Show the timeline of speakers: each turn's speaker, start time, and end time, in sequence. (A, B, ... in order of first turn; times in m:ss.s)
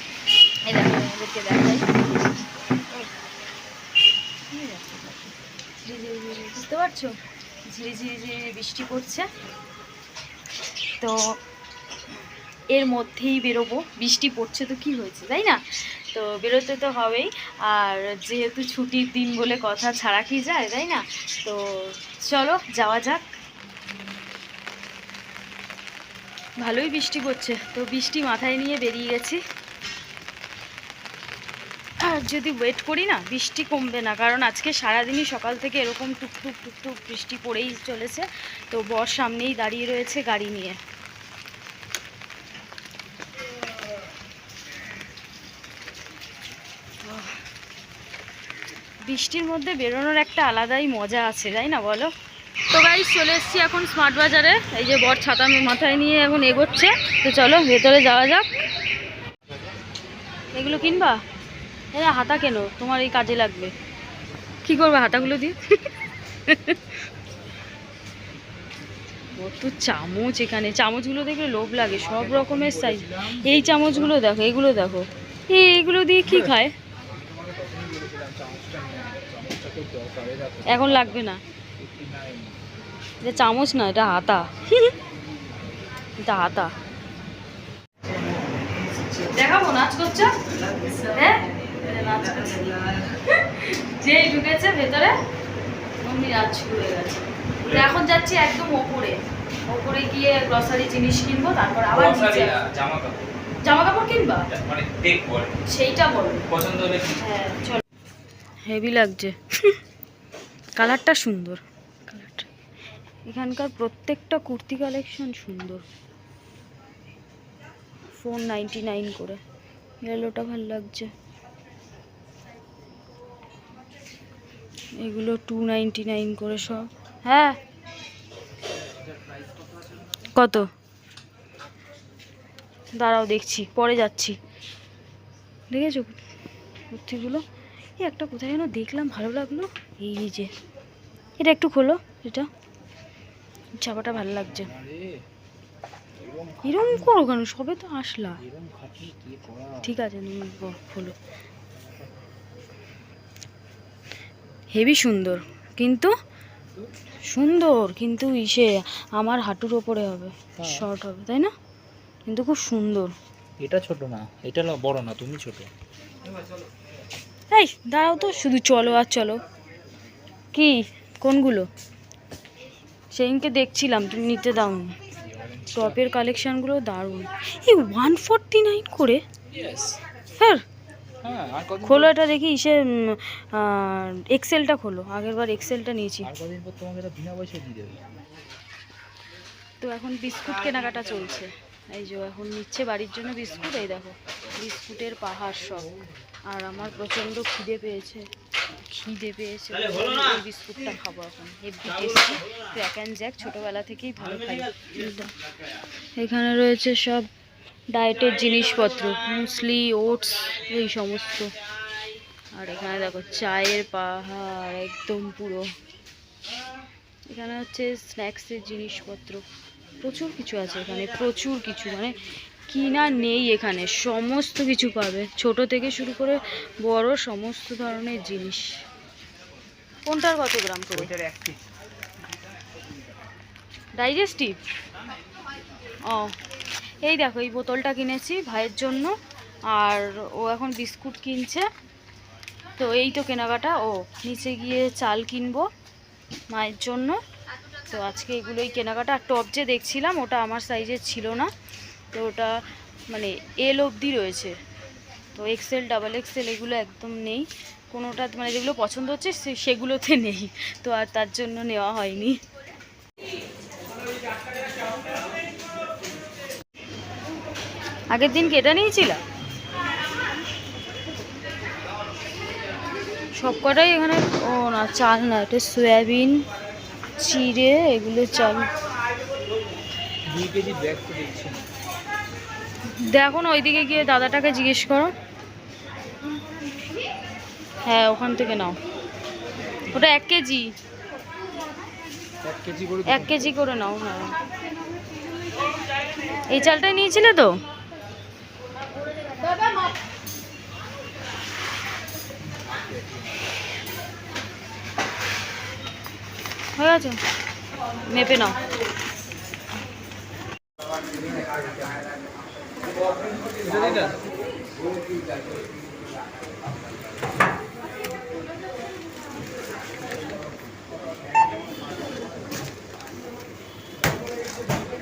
0:00.6-0:01.9 A
0:04.5-0:05.3 A
0:05.8-0:09.3 A
0:11.0-0:11.4 A
0:12.7-0:23.3 A
0:26.6-0:29.4 A
0:32.0-0:40.8 A
0:47.0-0:47.4 A
0:49.0-0:52.1 A
0:52.7-0:58.5 A
1:00.5-1:01.2 A
1:01.9-1:03.7 A
1:04.6-1:05.6 A
1:06.5-1:07.0 A
1:09.4-1:16.7 A
1:11.9-1:14.2 B
1:16.3-1:16.6 B
1:17.1-1:21.2 B
1:20.7-1:21.4 A
1:21.8-1:22.6 B
1:23.2-1:25.0 A
1:26.2-1:26.7 A
1:29.1-1:30.3 A
1:30.9-1:35.2 A
1:36.0-1:39.2 A
1:39.7-1:42.6 A
1:41.9-1:43.3 B
1:43.6-1:44.5 A
1:44.5-1:45.5 B
1:45.7-1:46.5 A
1:46.5-1:47.2 B
1:47.2-1:47.8 A
1:48.7-1:49.8 A
1:50.8-1:52.5 A
1:53.3-1:55.8 A
1:58.1-1:59.4 A
2:00.0-2:01.1 A
2:05.0-2:07.6 A
2:10.3-2:10.7 A
2:13.0-2:14.4 A
2:15.7-2:16.2 A
2:16.9-2:17.4 A
2:18.0-2:20.5 A
2:21.4-2:22.5 A
2:23.8-2:24.7 A
2:24.3-2:25.1 B
2:26.2-2:27.2 B
2:26.6-2:28.4 A
2:28.4-2:29.9 B
2:29.8-2:31.2 A
2:31.8-2:32.1 B
2:34.8-2:36.1 A
2:37.3-2:41.5 A
2:40.6-2:40.9 B
2:42.3-2:43.1 A
2:43.6-2:45.7 B
2:47.5-2:49.4 A
2:50.5-2:51.7 A
2:53.1-2:55.0 A
2:55.2-2:56.0 B
2:55.7-2:59.2 A
2:59.5-3:00.0 B
3:00.4-3:00.6 A
3:01.2-3:02.1 B
3:01.8-3:06.3 A
3:06.2-3:08.1 B
3:09.8-3:15.9 A
3:16.5-3:18.3 A
3:18.8-3:25.3 A
3:26.2-3:27.3 A
3:27.9-3:31.5 A
3:32.5-3:35.7 A
3:37.3-3:39.4 A
3:40.0-3:42.2 A
3:42.7-3:48.8 A
3:50.1-3:51.1 A
3:51.0-3:51.6 B
3:54.0-3:54.6 A
3:56.1-3:56.3 A
3:57.0-3:59.1 A
3:59.7-4:01.7 A
4:02.8-4:05.7 A
4:06.5-4:07.2 A
4:07.9-4:11.5 A
4:12.1-4:12.6 A
4:13.1-4:14.6 A
4:15.4-4:22.4 A
4:28.1-4:29.2 A
4:33.4-4:36.4 A
4:37.2-4:38.7 A
4:40.3-4:41.7 B
4:42.9-4:45.1 A
4:47.8-4:48.8 A
4:49.9-4:50.7 A
4:52.4-4:53.5 B
4:53.1-4:54.4 A
4:56.5-4:57.6 A
5:02.5-5:03.5 B
5:06.8-5:07.2 A
5:08.1-5:08.6 A
5:13.1-5:14.2 B